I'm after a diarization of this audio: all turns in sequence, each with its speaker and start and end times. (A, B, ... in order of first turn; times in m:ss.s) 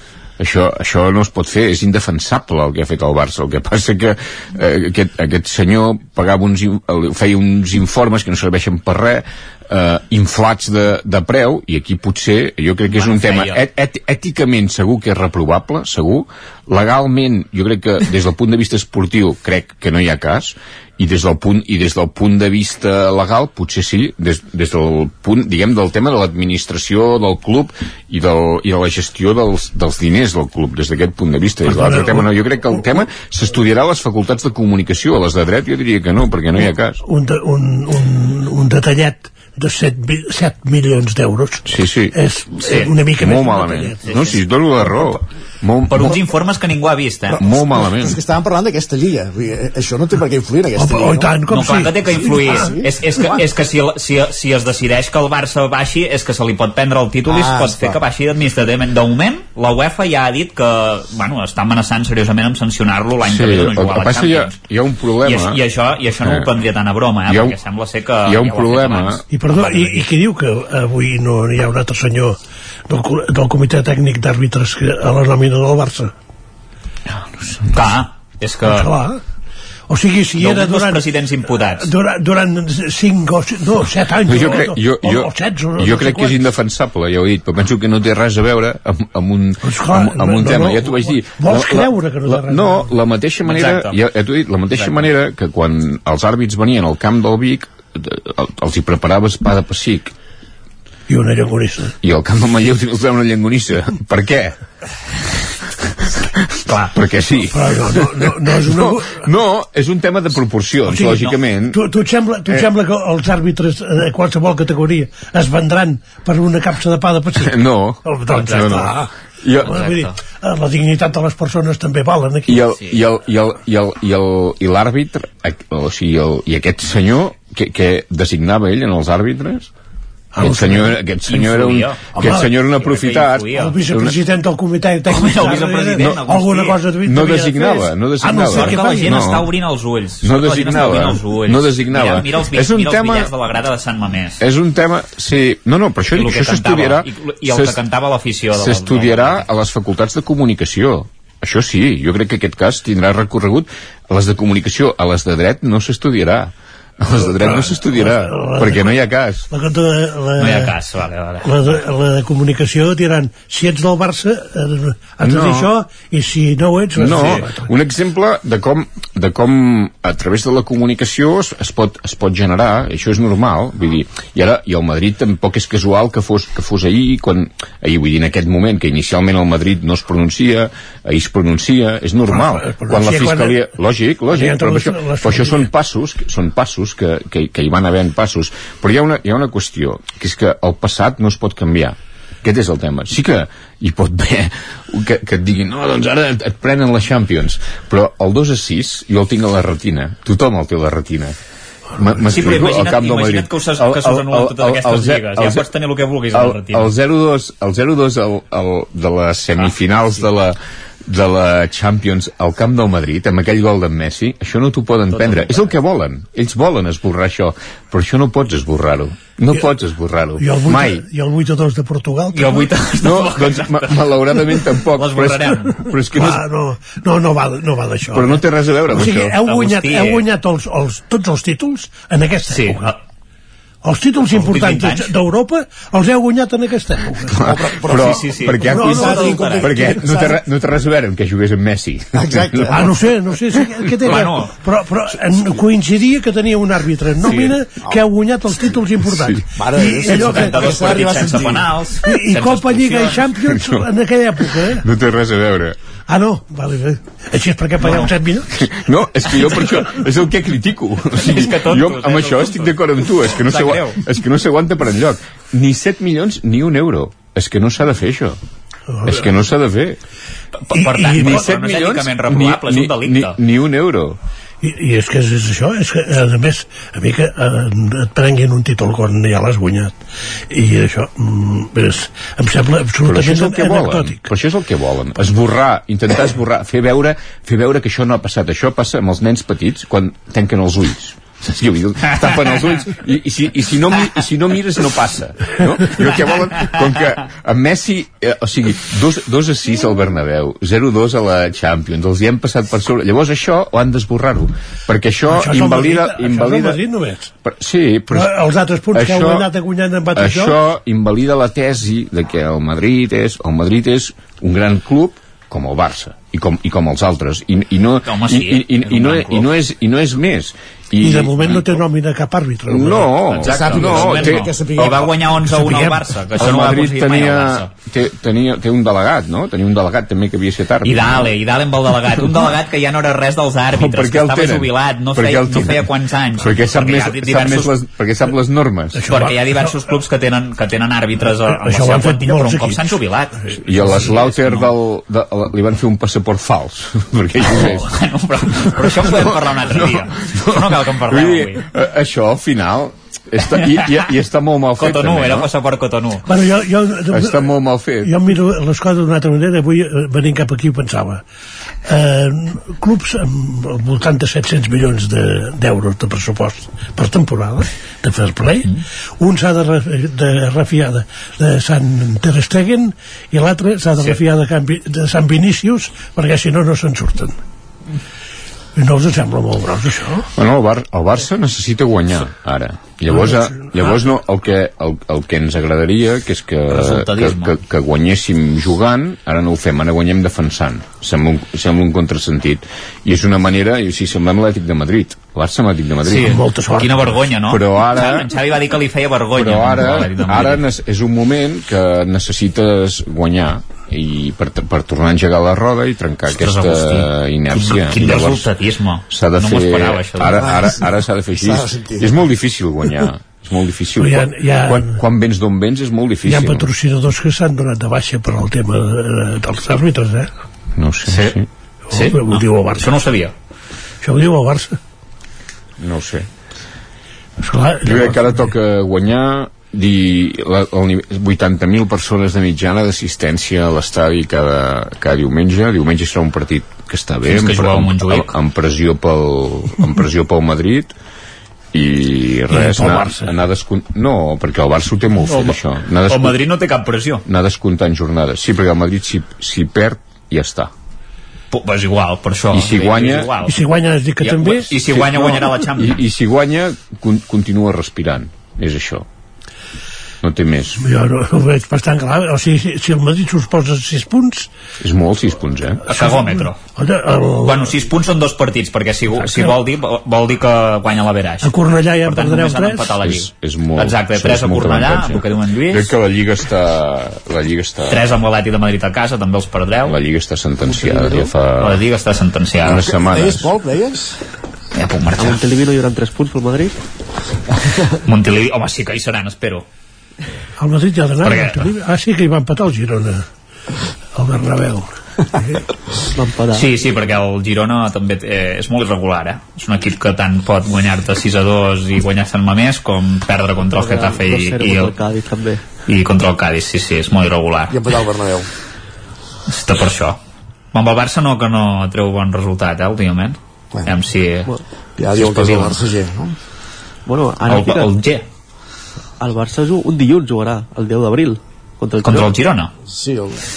0:00.4-0:37.0 A
0:12.9-0:13.6 B
0:31.6-0:33.0 C
0:37.0-0:45.1 C
0:41.7-0:42.1 A
0:42.7-0:46.2 A
0:45.9-0:47.4 B
0:47.3-0:51.3 D
0:47.4-0:48.2 A
0:50.8-0:52.7 C
0:51.5-1:04.6 B
0:52.1-0:53.4 D
0:57.2-0:58.0 D
1:03.2-1:05.6 A
1:05.2-1:10.0 B
1:06.2-1:06.5 A
1:07.3-1:07.6 A
1:08.2-1:09.2 A
1:09.3-1:16.1 C
1:17.5-1:18.9 B
1:18.6-1:19.2 C
1:19.9-1:21.0 C
1:20.4-1:21.9 B
1:21.7-1:26.4 C
1:24.2-1:40.1 A
1:29.6-1:32.9 C
1:33.4-1:34.0 B
1:34.7-1:35.1 B
1:41.1-1:41.9 C
1:42.0-1:44.5 A
1:46.7-1:46.9 B
1:46.9-1:51.8 A
1:47.5-1:49.1 C
1:50.9-1:51.4 B
1:51.0-1:57.5 C
1:52.5-1:52.7 A
1:57.4-1:59.9 A
1:58.0-1:59.1 C
1:58.3-1:58.8 B
1:59.7-2:02.6 C
1:59.7-2:00.1 B
2:02.5-2:09.7 A
2:10.3-2:11.0 C
2:10.4-2:14.2 A
2:11.2-2:13.8 B
2:12.2-2:12.5 C
2:13.5-2:19.3 C
2:15.1-2:16.9 B
2:16.0-2:16.2 A
2:17.0-2:19.5 A
2:18.5-2:24.4 B
2:20.2-2:23.3 A
2:24.4-2:27.8 A
2:26.1-2:29.4 B
2:28.5-2:39.4 A
2:37.1-2:39.0 C
2:39.5-2:40.7 C
2:40.4-2:41.6 B
2:41.4-2:47.7 C
2:45.2-2:45.7 A
2:46.9-3:21.3 A
3:02.3-3:03.6 C
3:04.3-3:05.7 C
3:22.0-3:25.6 A
3:22.3-3:26.9 B
3:26.3-3:30.6 A
3:31.1-3:41.0 A
3:35.1-3:35.7 B
3:40.4-3:42.7 C
3:42.3-3:44.1 B
3:43.0-3:46.4 A
3:44.9-3:45.7 B
3:46.1-3:52.9 C
3:48.1-3:49.4 A
3:49.5-3:50.2 B
3:52.5-3:52.9 B
3:53.8-3:57.4 C
3:54.3-3:55.1 B
3:57.3-4:02.9 A
3:57.4-4:00.4 D
3:57.9-3:59.9 B
3:58.9-3:59.4 C
4:02.1-4:03.1 D
4:02.7-4:11.4 C
4:04.0-4:04.5 B
4:07.2-4:07.6 B
4:08.9-4:09.4 A
4:09.6-4:11.7 D
4:09.8-4:13.2 B
4:12.0-4:14.8 C
4:13.5-4:13.8 A
4:14.6-4:15.8 A
4:16.1-4:18.5 C
4:17.8-4:18.1 B
4:18.5-4:28.4 A
4:21.2-4:22.8 B
4:23.4-4:24.0 B
4:28.9-4:29.4 C
4:29.0-4:30.0 A
4:30.7-4:33.4 B
4:30.7-4:31.4 C
4:31.0-4:34.2 A
4:34.6-4:39.9 C
4:40.5-4:44.3 C
4:43.0-5:06.8 A
5:05.3-5:07.3 C
5:07.4-5:08.3 A
5:08.1-5:10.6 C
5:08.9-5:09.4 A
5:10.1-5:21.8 A
5:18.0-5:19.5 B
5:21.0-5:23.2 C
5:22.7-5:24.5 A
5:23.4-5:27.7 B
5:23.4-5:25.2 D
5:25.4-5:26.1 C
5:26.3-5:31.3 A
5:30.8-5:37.7 B
5:33.7-5:39.0 A
5:39.0-5:39.9 C
5:39.1-5:44.7 B
5:41.3-5:42.8 C
5:43.6-5:48.0 A
5:43.8-5:44.1 C
5:47.5-5:51.6 B
5:48.6-5:55.5 A
5:53.5-5:54.0 B
5:54.8-5:56.2 B
5:56.3-5:57.5 C
5:57.1-5:58.2 A
5:58.0-6:01.2 C
6:01.8-6:17.4 C
6:18.8-6:20.3 C
6:20.4-6:36.5 A
6:23.1-6:23.9 C
6:26.7-6:27.6 B
6:36.0-6:40.6 B
6:36.2-6:37.3 C
6:37.4-6:38.3 A
6:39.3-6:48.5 A
6:46.3-6:50.8 B
6:49.1-6:56.7 A
6:50.4-6:50.8 D
6:51.3-6:52.1 D
6:54.0-6:54.9 C
6:56.2-7:00.3 C
7:00.8-7:01.4 A
7:01.1-7:01.4 B
7:01.9-7:02.9 C
7:01.9-7:03.3 B
7:04.0-7:04.8 C
7:05.8-7:06.3 A
7:07.4-7:08.5 C
7:07.8-7:20.9 A
7:17.3-7:18.3 B
7:21.7-7:26.4 A
7:22.5-7:23.3 C
7:25.3-7:27.2 B
7:27.2-7:30.7 A
7:31.5-7:33.6 B
7:32.5-7:33.4 A
7:33.4-7:34.7 C
7:34.3-7:39.0 A
7:34.4-7:36.0 B
7:40.2-7:40.8 A
7:40.8-7:44.5 C
7:44.8-7:45.8 A
7:45.9-7:47.8 C
7:45.9-7:46.6 B
7:47.4-7:56.0 B
7:49.2-7:49.5 C
7:51.4-7:53.0 C
7:53.0-7:58.0 A
7:57.9-8:00.0 B
7:59.8-8:01.8 A
8:00.8-8:01.2 D
8:01.6-8:02.9 B
8:02.6-8:03.5 A
8:02.6-8:04.2 D
8:04.8-8:05.4 B
8:05.2-8:06.8 E
8:08.0-8:09.6 B
8:10.6-8:13.2 C
8:11.2-8:11.7 B
8:14.1-8:15.6 C
8:16.1-8:16.7 E
8:16.5-8:25.0 B
8:23.7-8:25.6 E
8:25.9-8:27.9 B
8:27.7-8:28.5 D
8:29.5-8:30.2 B
8:30.7-8:34.5 B
8:35.0-8:36.3 D
8:35.1-8:35.8 B
8:37.0-8:37.9 E
8:37.5-8:38.2 B
8:39.2-8:42.3 E
8:42.0-8:42.7 B
8:42.8-8:43.4 D